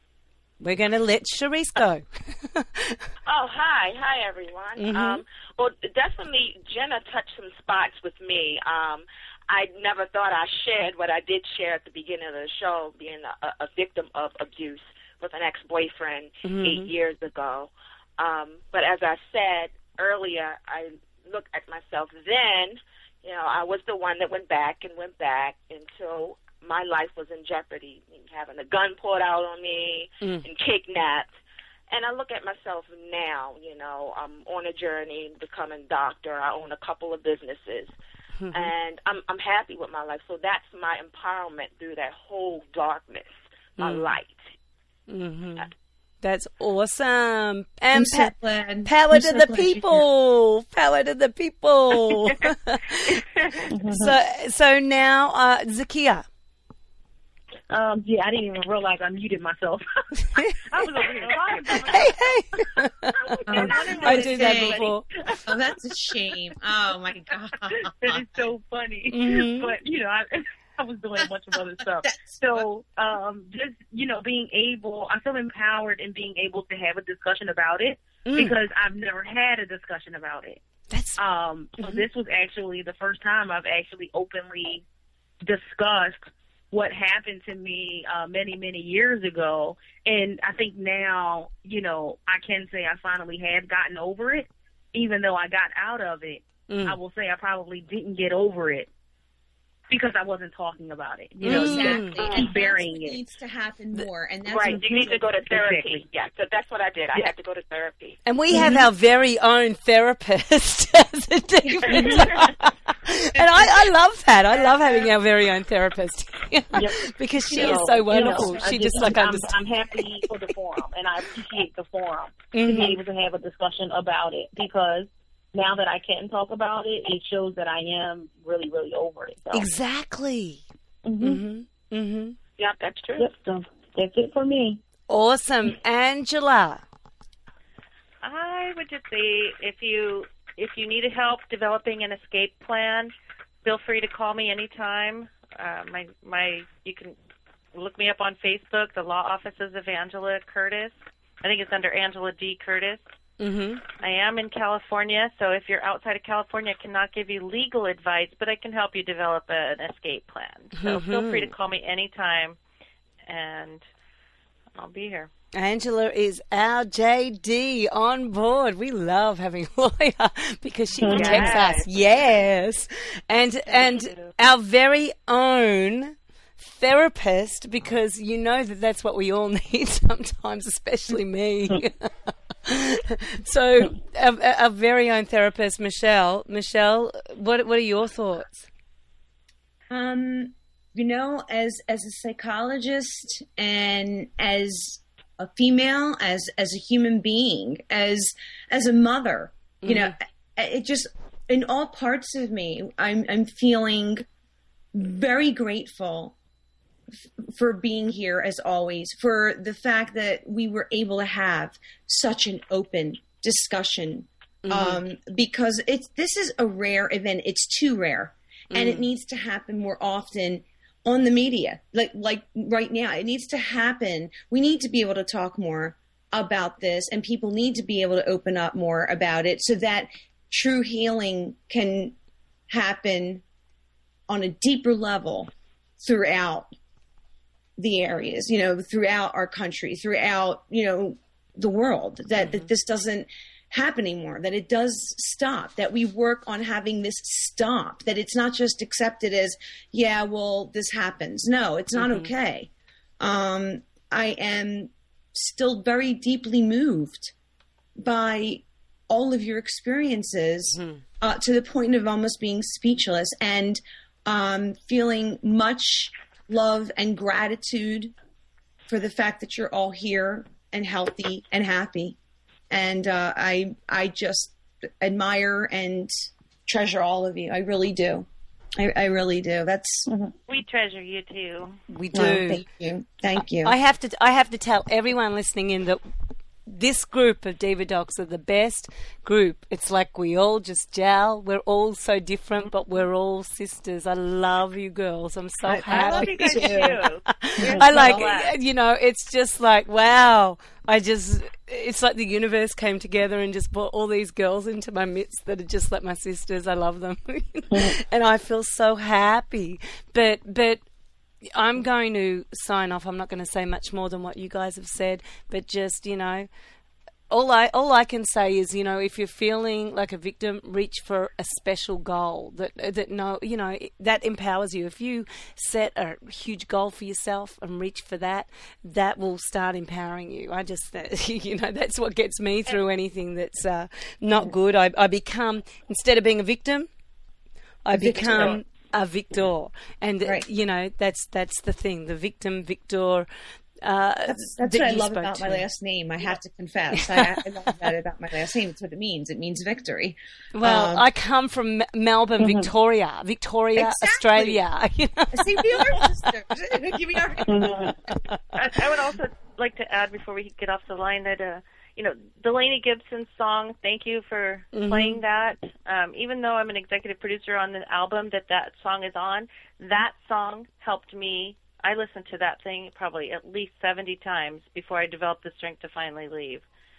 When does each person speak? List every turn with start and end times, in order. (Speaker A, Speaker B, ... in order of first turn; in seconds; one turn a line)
Speaker A: 0.6-3.0
Speaker B: 3.3-31.3
Speaker A: 4.8-5.2
Speaker A: 16.4-16.9
Speaker B: 31.9-37.9
Speaker A: 38.4-38.7
Speaker B: 38.5-44.4
Speaker A: 43.8-44.1
Speaker A: 45.1-45.7
Speaker A: 46.2-48.3
Speaker C: 47.9-50.0
Speaker A: 48.8-53.2
Speaker B: 53.1-53.6
Speaker D: 53.7-54.2
Speaker A: 53.9-56.2
Speaker D: 57.7-65.4
Speaker E: 61.0-62.2
Speaker A: 61.9-65.1
Speaker C: 63.5-64.9
Speaker B: 63.7-64.0
Speaker C: 65.5-68.2
Speaker D: 67.7-80.6
Speaker A: 69.1-69.7
Speaker C: 72.0-72.5
Speaker A: 78.2-78.6
Speaker A: 80.9-81.2
Speaker D: 81.2-84.8
Speaker D: 85.4-86.2
Speaker D: 86.7-98.9
Speaker A: 96.7-97.0
Speaker D: 99.9-103.2
Speaker C: 101.4-105.2
Speaker A: 101.4-102.2
Speaker B: 101.8-102.5
Speaker B: 104.5-108.7
Speaker D: 104.6-106.1
Speaker A: 108.2-120.0
Speaker D: 108.5-108.8
Speaker B: 111.8-112.3
Speaker D: 111.9-112.4
Speaker D: 116.7-129.7
Speaker A: 122.5-123.0
Speaker A: 129.5-130.6
Speaker D: 131.1-131.4
Speaker A: 131.2-132.4
Speaker B: 132.6-133.3
Speaker D: 133.2-134.8
Speaker A: 135.1-136.8
Speaker E: 138.2-143.1
Speaker E: 143.6-147.2
Speaker E: 147.7-153.0
Speaker A: 153.4-153.8
Speaker E: 154.0-162.6
Speaker A: 160.8-161.5
Speaker E: 163.2-163.8
Speaker E: 164.7-165.3
Speaker A: 165.5-188.7
Speaker D: 171.0-171.7
Speaker E: 171.1-171.9
Speaker B: 171.1-171.6
Speaker E: 173.7-174.3
Speaker C: 189.9-204.3
Speaker A: 199.8-200.1
Speaker C: 204.9-206.3
Speaker C: 207.5-232.1
Speaker A: 214.6-215.0
Speaker A: 218.7-219.1
Speaker C: 232.7-233.4
Speaker C: 234.3-236.7
Speaker C: 237.8-257.3
Speaker A: 242.4-242.7
Speaker A: 252.0-252.3
Speaker C: 257.9-268.1
Speaker A: 260.7-261.0
Speaker C: 268.9-272.2
Speaker C: 272.7-276.1
Speaker C: 276.6-280.1
Speaker E: 280.5-281.8
Speaker A: 281.9-282.6
Speaker C: 282.1-283.7
Speaker A: 283.3-286.0
Speaker A: 286.6-310.8
Speaker C: 295.6-297.0
Speaker E: 295.9-298.5
Speaker D: 297.6-298.2
Speaker D: 307.7-307.9
Speaker A: 311.5-316.5
Speaker A: 317.3-336.9
Speaker A: 337.8-343.3
Speaker C: 337.9-338.6
Speaker A: 343.8-345.6
Speaker C: 344.3-351.1
Speaker A: 346.9-347.7
Speaker A: 350.6-356.1
Speaker D: 352.4-352.7
Speaker C: 353.7-354.6
Speaker C: 355.3-358.2
Speaker D: 357.5-357.9
Speaker E: 358.5-376.6
Speaker A: 364.7-365.2